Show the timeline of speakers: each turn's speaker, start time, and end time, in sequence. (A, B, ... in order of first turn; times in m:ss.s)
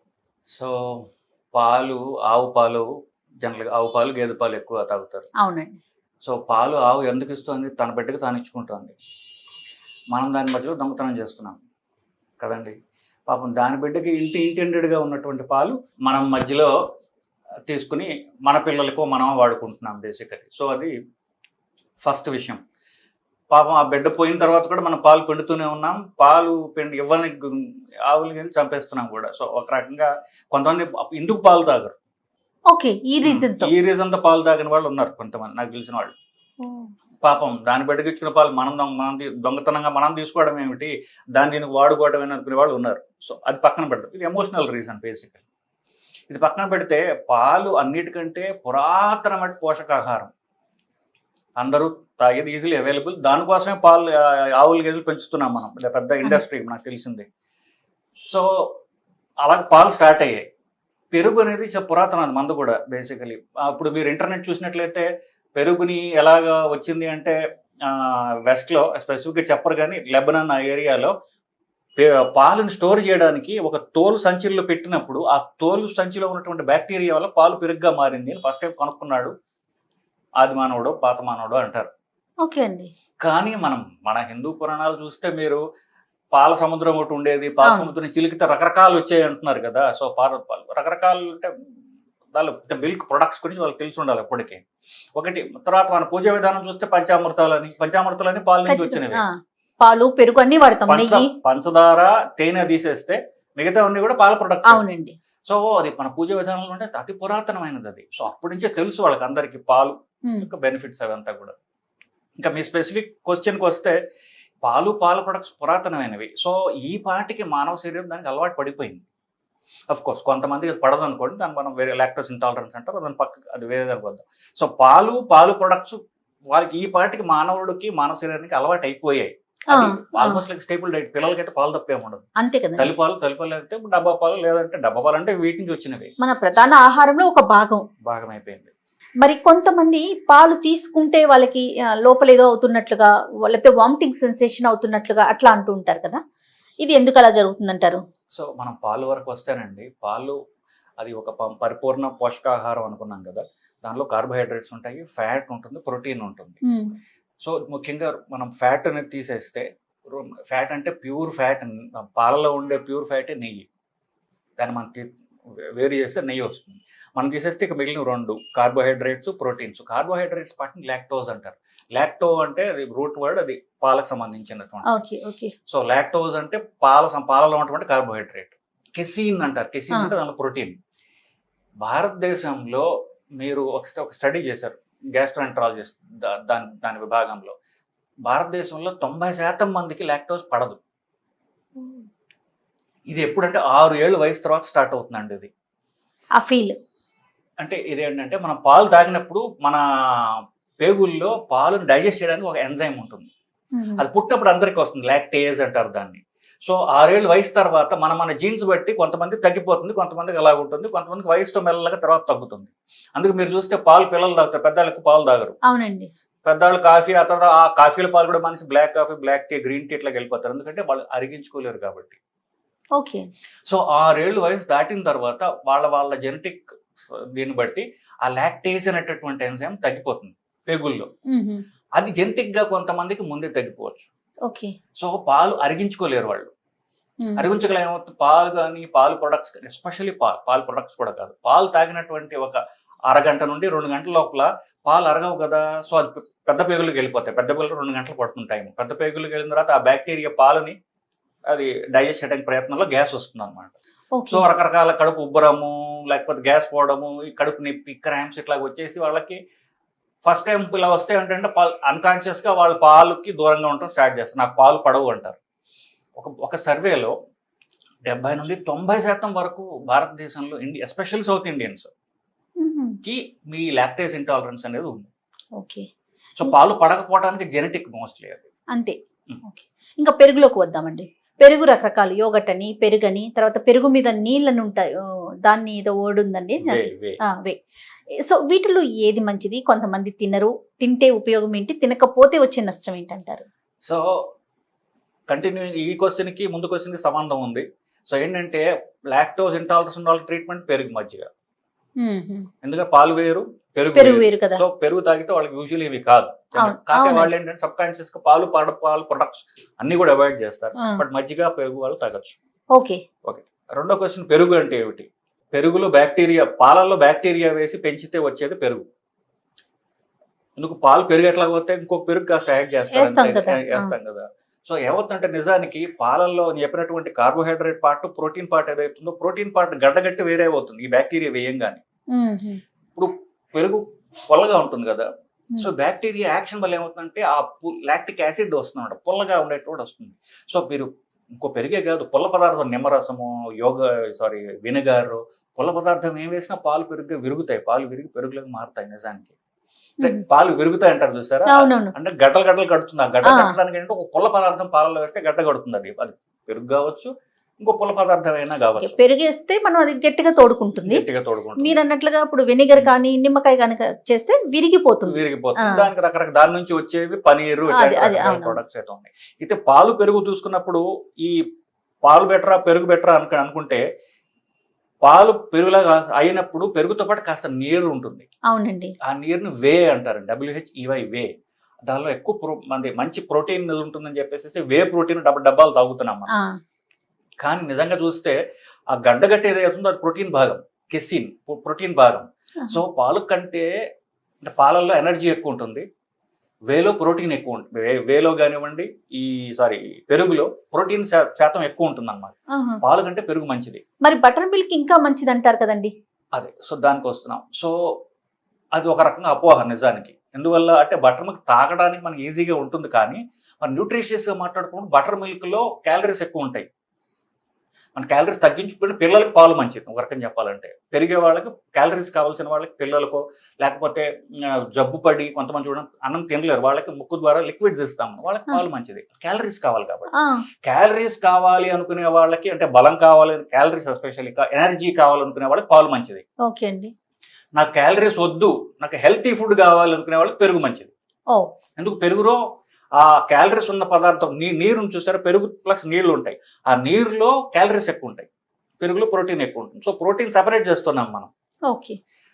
0:00.5-0:02.9 A
0:03.4-0:05.3 A
0:05.4-0:05.8 B
0:06.2-0:09.0 A
0:10.1-0:11.6 A
0:12.4-0:12.8 A
0:13.3-0:16.7 A
0:17.7-0:20.9 A
0:22.0-0:22.6 A
0:23.5-0:32.0 A
0:32.7-0:33.7 B
0:33.2-0:36.2 A
0:36.6-0:36.9 B
0:37.2-0:45.4 A
0:46.3-0:50.3 A
0:51.6-0:57.3 A
0:58.3-0:58.7 A
0:59.4-1:00.4 A
1:01.1-1:11.1 A
1:12.0-1:19.3 A
1:20.4-1:21.9 A
1:22.4-1:22.9 B
1:23.2-1:25.6 A
1:26.3-1:31.5 A
1:27.6-1:27.9 B
1:32.3-1:34.6 A
1:35.2-1:39.2 A
1:38.7-1:39.3 B
1:39.8-1:41.3 B
1:40.9-1:44.8 A
1:44.7-1:45.2 B
1:45.5-1:51.6 A
1:52.4-1:54.0 A
1:54.6-1:59.0 A
1:59.9-2:06.0 A
2:06.5-2:12.2 A
2:09.7-2:10.4 B
2:12.4-2:12.9 B
2:12.8-2:16.1 A
2:16.2-2:17.9 B
2:18.0-2:18.7 A
2:19.2-2:26.2 B
2:26.8-2:28.0 B
2:28.3-2:30.4 A
2:31.0-2:36.6 A
2:36.7-2:36.9 B
2:37.4-2:43.7 A
2:44.6-2:45.1 A
2:45.8-2:54.9 A
2:54.9-2:55.5 B
2:55.7-3:00.8 A
3:01.8-3:02.9 A
3:03.4-3:07.6 A
3:08.3-3:10.8 A
3:11.8-3:12.1 B
3:13.1-3:15.5 A
3:16.4-3:16.8 B
3:17.6-3:23.3 A
3:23.8-3:24.0 B
3:24.0-3:35.6 A
3:35.6-3:36.1 B
3:36.5-3:42.2 A
3:43.0-3:43.3 B
3:43.7-3:51.1 A
3:51.3-3:51.6 B
3:52.0-3:54.1 A
3:54.5-3:54.7 B
3:55.0-3:56.5 A
3:57.4-4:10.8 A
4:11.5-4:13.8 A
4:14.2-4:14.4 B
4:14.3-4:19.4 A
4:20.2-4:25.4 A
4:26.2-4:27.1 A
4:28.1-4:31.9 A
4:32.6-4:33.0 B
4:33.0-4:35.1 A
4:35.6-4:35.9 B
4:36.4-4:38.5 A
4:38.7-4:44.9 B
4:45.5-4:47.6 B
4:46.6-4:47.2 A
4:48.2-4:53.5 B
4:53.8-4:54.3 A
4:55.3-5:01.3 A
5:02.0-5:02.5 B
5:02.6-5:12.4 A
5:03.9-5:04.6 B
5:06.6-5:07.3 B
5:12.7-5:13.0 B
5:13.2-5:18.8 A
5:20.6-5:31.8 A
5:22.9-5:23.9 B
5:32.1-5:32.6 B
5:33.0-5:35.1 A
5:35.6-5:49.3 A
5:50.0-5:57.1 A
5:51.5-5:51.9 B
5:53.2-5:53.6 B
5:57.6-5:59.0 A
5:58.8-6:01.0 B
6:00.8-6:01.8 A
6:01.6-6:05.8 B
6:05.1-6:11.4 A
6:07.7-6:08.6 B
6:12.0-6:13.8 A
6:15.0-6:18.3 A
6:18.5-6:19.0 B
6:19.0-6:21.3 A
6:21.9-6:26.3 A
6:27.4-6:28.4 A
6:28.9-6:33.7 A
6:34.4-6:35.9 A
6:36.7-6:43.8 A
6:42.5-6:42.8 B
6:44.0-6:45.9 B
6:46.3-6:47.7 A
6:48.8-6:56.7 A
6:58.0-7:10.1 A
7:10.2-7:10.4 B
7:10.6-7:16.2 A
7:16.5-7:16.9 B
7:17.6-7:20.9 A
7:21.8-7:22.4 A
7:23.0-7:28.3 A
7:28.8-7:31.3 A
7:31.7-7:32.0 B